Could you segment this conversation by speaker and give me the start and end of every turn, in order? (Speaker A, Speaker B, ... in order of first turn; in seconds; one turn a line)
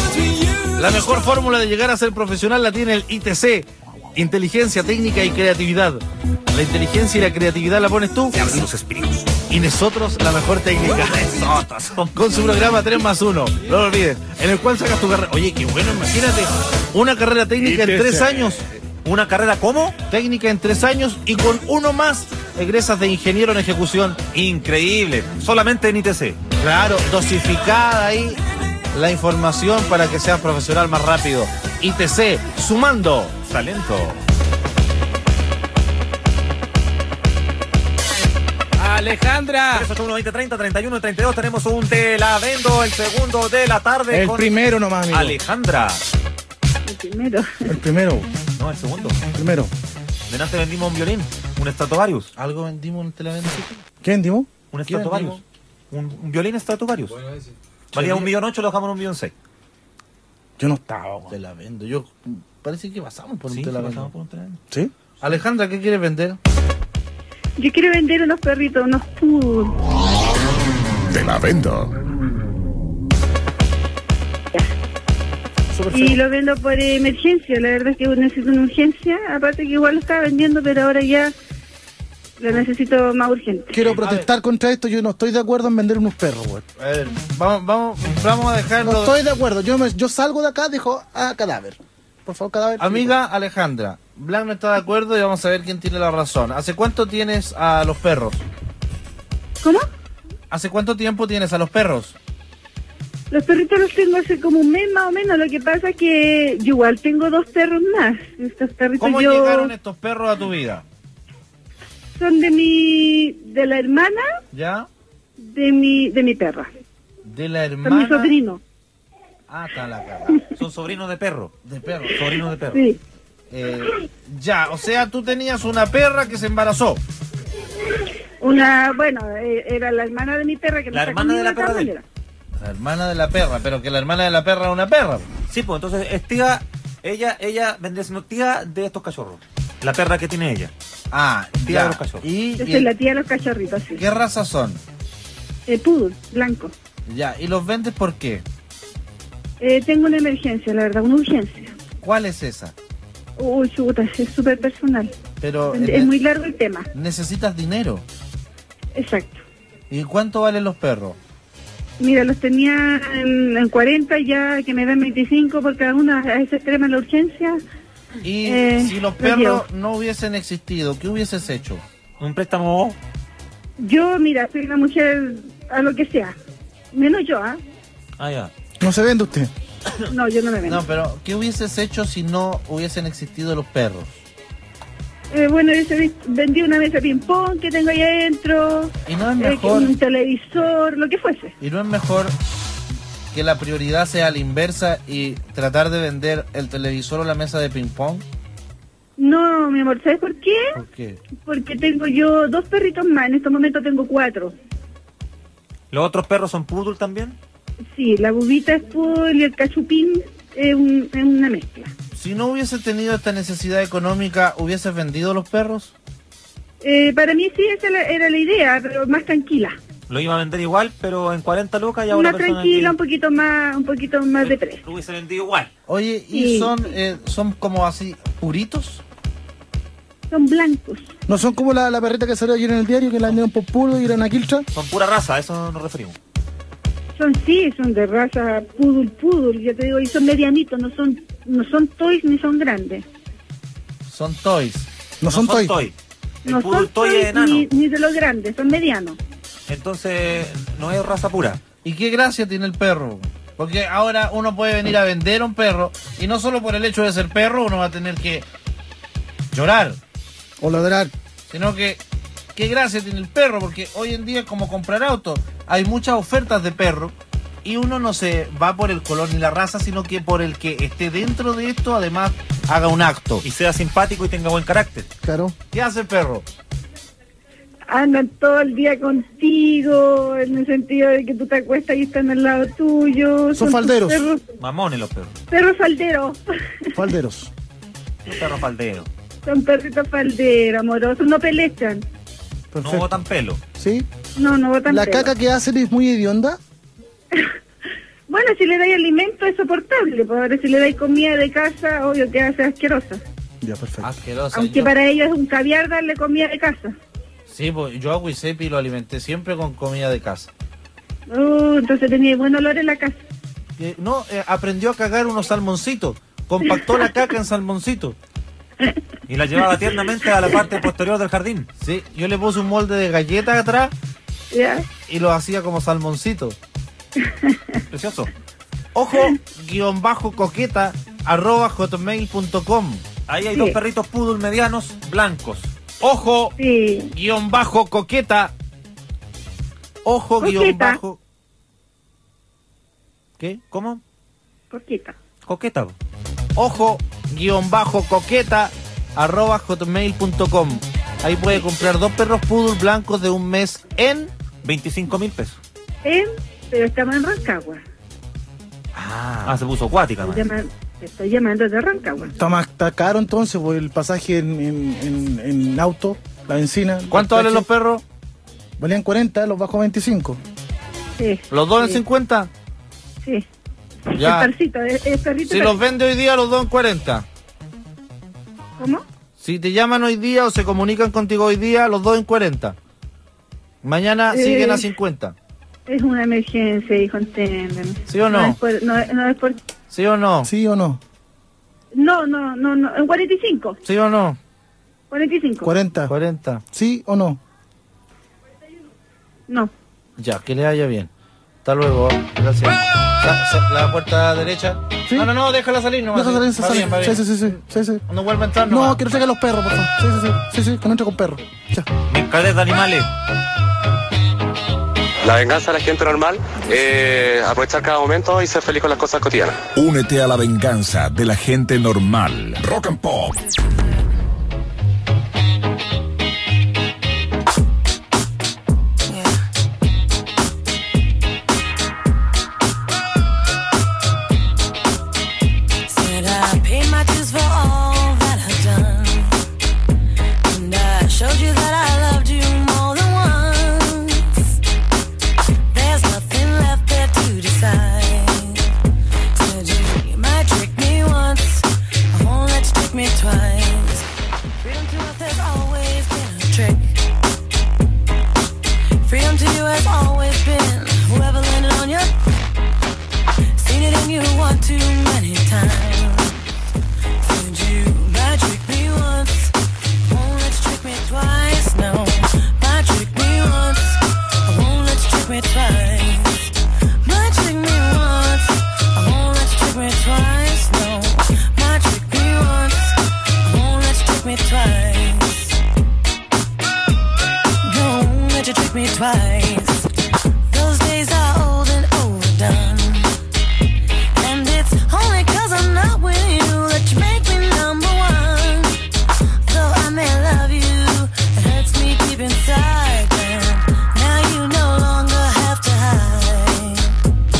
Speaker A: 0.8-8.7
Speaker B: 8.3-9.3
Speaker A: 9.5-18.6
Speaker B: 10.9-12.1
Speaker C: 17.6-18.6
Speaker B: 19.0-19.9
Speaker A: 20.1-24.2
Speaker B: 24.3-26.4
Speaker A: 26.6-28.4
Speaker A: 28.9-33.3
Speaker B: 33.4-34.2
Speaker C: 38.8-39.9
Speaker B: 39.7-44.6
Speaker C: 44.1-45.4
Speaker B: 45.1-46.0
Speaker D: 46.9-47.6
Speaker C: 47.6-48.3
Speaker B: 48.6-49.2
Speaker C: 49.3-49.7
Speaker B: 50.3-52.3
Speaker A: 52.4-53.6
Speaker C: 54.0-55.4
Speaker B: 54.7-57.1
Speaker B: 57.9-59.3
Speaker C: 60.6-61.3
Speaker A: 61.3-64.1
Speaker B: 63.5-64.6
Speaker A: 65.2-66.4
Speaker D: 67.6-69.7
Speaker E: 71.1-71.9
Speaker C: 75.7-76.2
Speaker D: 75.9-81.3
Speaker D: 82.4-83.8
Speaker C: 83.7-86.6
Speaker A: 83.8-84.3
Speaker A: 86.8-89.2
Speaker C: 88.8-93.1
Speaker A: 92.8-98.4
Speaker A: 100.5-102.2
Speaker D: 103.3-109.7
Speaker A: 109.0-110.8
Speaker D: 112.2-114.2
Speaker A: 114.5-114.9
Speaker D: 115.4-116.7
Speaker A: 117.2-118.3
Speaker D: 117.8-118.6
Speaker A: 119.5-120.4
Speaker B: 120.5-121.5
Speaker A: 121.6-122.2
Speaker B: 122.1-122.8
Speaker D: 122.7-123.0
Speaker A: 123.5-127.0
Speaker D: 128.4-132.0
Speaker B: 130.9-131.9
Speaker A: 132.6-135.3
Speaker B: 135.5-140.7
Speaker A: 141.1-142.9
Speaker B: 141.6-142.2
Speaker D: 142.6-144.0
Speaker A: 143.9-144.8
Speaker D: 145.7-146.7
Speaker A: 147.1-148.4
Speaker D: 149.6-151.7
Speaker A: 152.0-152.7
Speaker D: 153.4-155.1
Speaker A: 155.4-156.1
Speaker D: 155.7-156.9
Speaker A: 156.9-158.0
Speaker D: 158.9-159.4
Speaker A: 159.9-161.2
Speaker D: 162.0-167.6
Speaker A: 168.2-171.8
Speaker D: 168.4-169.6
Speaker B: 172.2-173.0
Speaker D: 173.8-176.3
Speaker D: 176.9-177.6
Speaker B: 178.2-178.5
Speaker C: 178.8-179.5
Speaker D: 180.1-180.8
Speaker A: 180.7-184.2
Speaker D: 185.3-191.5
Speaker A: 189.1-189.9
Speaker A: 191.6-192.3
Speaker A: 193.3-198.2
Speaker D: 199.2-200.7
Speaker A: 200.8-201.2
Speaker D: 201.4-204.5
Speaker B: 205.9-207.4
Speaker D: 207.9-211.9
Speaker A: 212.1-215.9
Speaker D: 216.8-219.8
Speaker B: 220.1-222.9
Speaker D: 222.1-224.8
Speaker B: 224.4-225.7
Speaker A: 225.9-229.0
Speaker D: 226.3-226.8
Speaker D: 230.3-231.1
Speaker C: 231.3-234.6
Speaker B: 234.7-236.2
Speaker D: 237.2-243.1
Speaker A: 244.1-244.9
Speaker C: 245.2-245.8
Speaker B: 245.3-247.7
Speaker D: 246.4-249.2
Speaker B: 249.7-251.6
Speaker A: 251.8-258.4
Speaker A: 259.5-260.0
Speaker C: 260.6-261.1
Speaker A: 261.5-262.0
Speaker A: 262.5-273.4
Speaker B: 273.4-275.1
Speaker C: 275.2-275.6
Speaker A: 275.7-276.4
Speaker D: 277.9-284.4
Speaker C: 283.5-284.3
Speaker B: 284.6-285.3
Speaker D: 285.5-286.4
Speaker C: 286.9-287.5
Speaker B: 288.2-289.1
Speaker D: 289.4-292.0
Speaker C: 292.7-293.2
Speaker B: 292.8-293.6
Speaker C: 293.8-294.1
Speaker D: 294.4-295.3
Speaker C: 294.9-296.6
Speaker D: 298.3-303.2
Speaker C: 303.6-304.1
Speaker A: 304.0-304.9
Speaker D: 304.5-306.9
Speaker A: 307.5-310.5
Speaker D: 311.3-313.2
Speaker A: 313.8-318.2
Speaker B: 319.3-321.7
Speaker A: 321.8-323.9
Speaker D: 324.5-324.9
Speaker A: 325.1-326.6
Speaker D: 327.2-327.8
Speaker B: 327.9-328.3
Speaker A: 328.9-333.0
Speaker B: 333.3-335.7
Speaker A: 336.0-336.5
Speaker D: 336.6-337.1
Speaker A: 337.1-338.5
Speaker A: 340.0-341.2
Speaker D: 340.4-341.0
Speaker B: 343.7-344.0
Speaker D: 344.7-345.1
Speaker B: 345.4-345.9
Speaker A: 346.6-354.3
Speaker B: 354.6-355.6
Speaker D: 356.0-357.8
Speaker B: 358.9-360.5
Speaker D: 360.2-362.3
Speaker C: 362.3-367.7
Speaker A: 367.1-368.0
Speaker C: 368.8-370.4
Speaker D: 371.2-372.0
Speaker A: 371.5-372.5
Speaker D: 374.1-375.8
Speaker A: 374.1-374.5
Speaker A: 375.5-377.2
Speaker D: 378.8-379.0
Speaker A: 379.4-382.8
Speaker A: 383.8-385.3
Speaker D: 384.3-384.9
Speaker D: 385.9-389.6
Speaker A: 388.1-388.6
Speaker A: 389.9-390.5
Speaker C: 390.4-391.0
Speaker D: 391.9-393.8
Speaker A: 393.8-394.4
Speaker D: 395.1-395.7
Speaker C: 395.6-396.1
Speaker A: 396.1-396.6
Speaker C: 396.7-397.4
Speaker A: 400.2-401.1
Speaker A: 401.6-407.3
Speaker C: 405.1-405.3
Speaker C: 406.1-408.0
Speaker A: 408.1-409.0
Speaker C: 408.7-411.9
Speaker B: 412.1-413.1
Speaker F: 415.2-419.6
Speaker E: 419.7-423.4
Speaker G: 435.9-439.4
Speaker G: 440.4-444.6
Speaker G: 445.7-448.7
Speaker G: 449.3-454.1
Speaker G: 454.6-456.9
Speaker G: 459.0-462.1
Speaker G: 463.6-466.4
Speaker G: 467.2-485.6
Speaker G: 487.6-489.9
Speaker G: 490.5-493.1
Speaker G: 494.2-498.8
Speaker G: 499.4-506.9